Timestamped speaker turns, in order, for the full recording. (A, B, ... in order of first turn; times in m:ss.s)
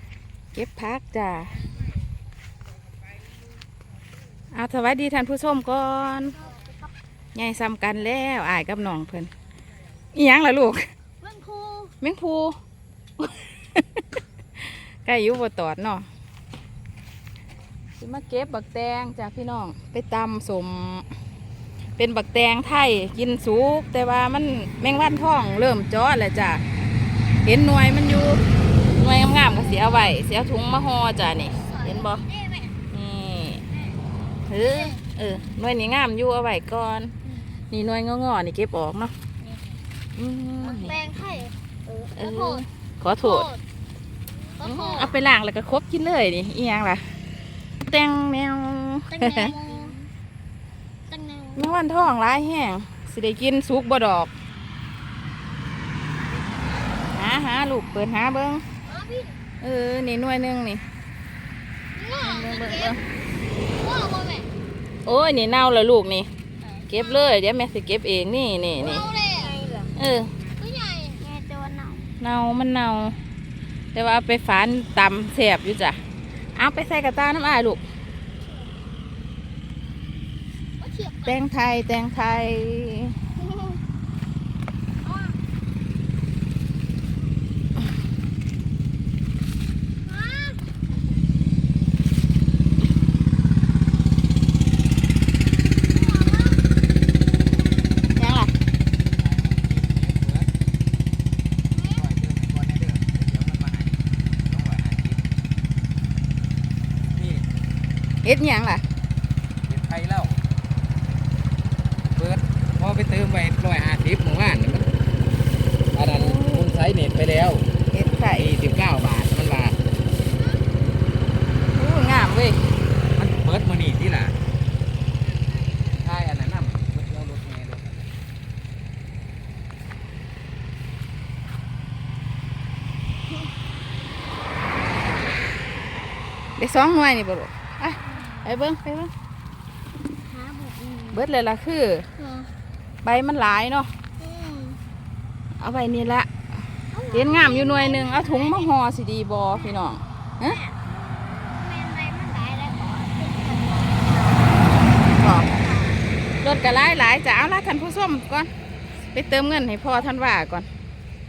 0:00.5-0:01.6 A
0:04.5-0:06.4 A
0:07.4-0:09.3 A
0:10.1-0:10.8 A
0:11.2-0:11.9 B
0:12.0-0:12.5 A
0:13.2-0:14.0 A
0:14.6-0:16.0 A
0:18.0-0:21.0 A
0:22.0-0:26.6 A
0:27.4-0:28.4 A
0:29.0-0:32.2 A
0:31.6-0:32.8 B
0:32.9-0:33.6 A
0:34.5-0:37.1 A
0:34.6-0:35.0 B
0:37.7-0:39.1 A
0:40.2-0:41.0 A
0:40.6-0:42.6 B
0:42.2-0:43.5 A
0:43.2-0:43.6 B
0:44.6-0:45.1 B
0:44.6-0:47.0 A
0:47.8-0:49.5 A
0:49.1-0:50.0 B
0:51.1-0:51.8 B
0:51.6-0:54.3 A
0:57.1-0:58.6 A
0:58.8-0:59.4 B
0:59.6-1:00.8 A
1:02.0-1:03.0 B
1:02.2-1:03.0 A
1:03.8-1:04.5 B
1:05.0-1:06.3 A
1:06.9-1:09.1 A
1:06.9-1:07.2 B
1:08.8-1:09.9 B
1:10.0-1:10.3 A
1:10.6-1:12.1 B
1:12.2-1:13.2 A
1:13.9-1:16.0 A
1:16.6-1:17.8 A
1:20.8-1:21.4 B
1:21.2-1:23.2 A
1:25.0-1:25.3 B
1:30.1-1:30.6 B
1:35.9-1:36.6 B
1:38.2-1:38.5 A
1:39.2-1:40.5 C
1:41.7-1:42.0 B
1:41.8-1:45.2 C
1:47.2-1:47.4 C
1:48.2-1:48.8 A
1:49.7-1:50.4 C
1:52.2-1:54.9 C
1:55.9-1:57.7 C
1:56.1-1:56.7 A
1:57.9-1:58.5 A
1:58.4-1:59.8 C
2:01.7-2:02.6 A
2:03.2-2:04.4 C
2:05.9-2:08.0 C
2:16.6-2:19.1 A
2:18.0-2:18.5 B
2:20.2-2:21.2 B
2:21.1-2:22.0 A
2:22.2-2:22.5 B
2:23.0-2:23.9 A
2:24.2-2:24.8 B
2:25.6-2:26.3 A
2:26.9-2:28.7 B
2:27.1-2:30.6 A
2:30.4-2:34.7 B
2:35.1-2:35.7 A
2:35.2-2:36.1 B
2:36.4-2:38.5 A
2:39.1-2:40.7 A